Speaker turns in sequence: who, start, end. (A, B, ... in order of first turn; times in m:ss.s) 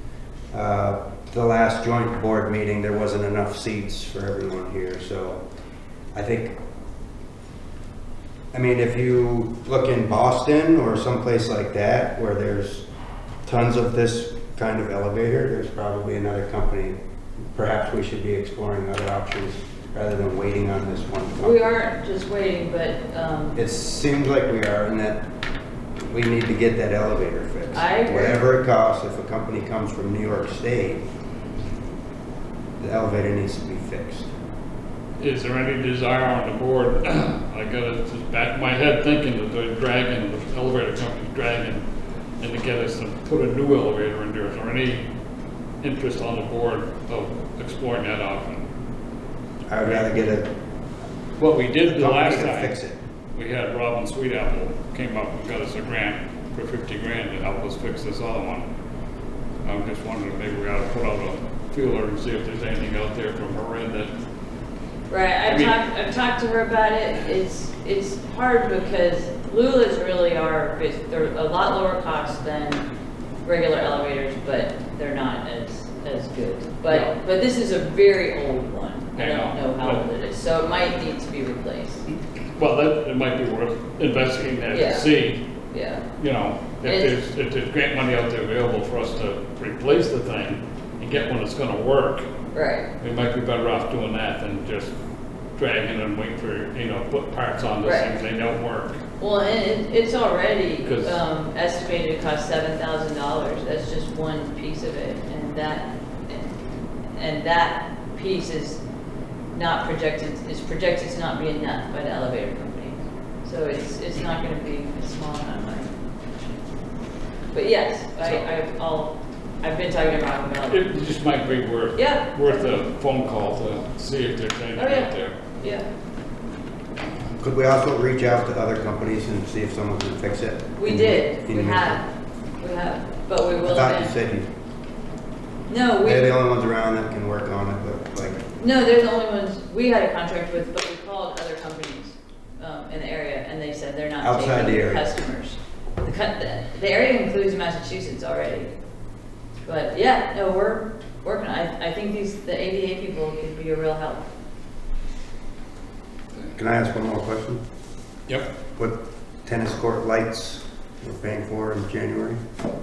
0:00.5-0:05.4 A
0:06.1-0:06.6 A
0:08.5-0:12.9 A
0:13.4-0:17.0 A
0:17.5-0:21.6 A
0:21.4-0:23.6 B
0:23.6-0:25.2 A
0:26.0-0:31.0 A
0:27.7-0:28.4 B
0:32.8-0:34.3 A
0:35.2-0:41.8 C
0:42.4-0:45.0 C
0:45.8-0:48.7 C
0:49.7-0:50.5 A
0:49.8-0:50.2 C
0:51.4-0:52.7 C
0:51.9-0:53.0 A
0:53.3-0:58.7 C
0:59.6-1:04.1 C
1:05.1-1:12.9 B
1:05.5-1:05.7 C
1:13.4-1:22.1 B
1:19.2-1:20.0 C
1:22.6-1:25.4 C
1:24.7-1:25.1 B
1:25.7-1:26.0 B
1:26.2-1:32.2 C
1:26.8-1:27.1 B
1:32.5-1:32.9 B
1:33.0-1:34.9 C
1:35.6-1:39.0 C
1:37.8-1:38.1 B
1:39.2-1:48.8 B
1:40.8-1:41.2 C
1:49.5-1:55.9 B
1:57.5-2:00.8 B
2:00.7-2:05.4 C
2:02.0-2:02.7 B
2:04.8-2:05.9 B
2:07.4-2:12.0 A
2:10.8-2:12.1 B
2:12.6-2:14.1 B
2:13.6-2:14.5 A
2:15.7-2:16.4 B
2:16.0-2:18.4 A
2:18.6-2:28.7 B
2:24.2-2:25.0 A
2:29.6-2:34.2 B
2:36.5-2:37.6 A
2:38.8-2:42.4 A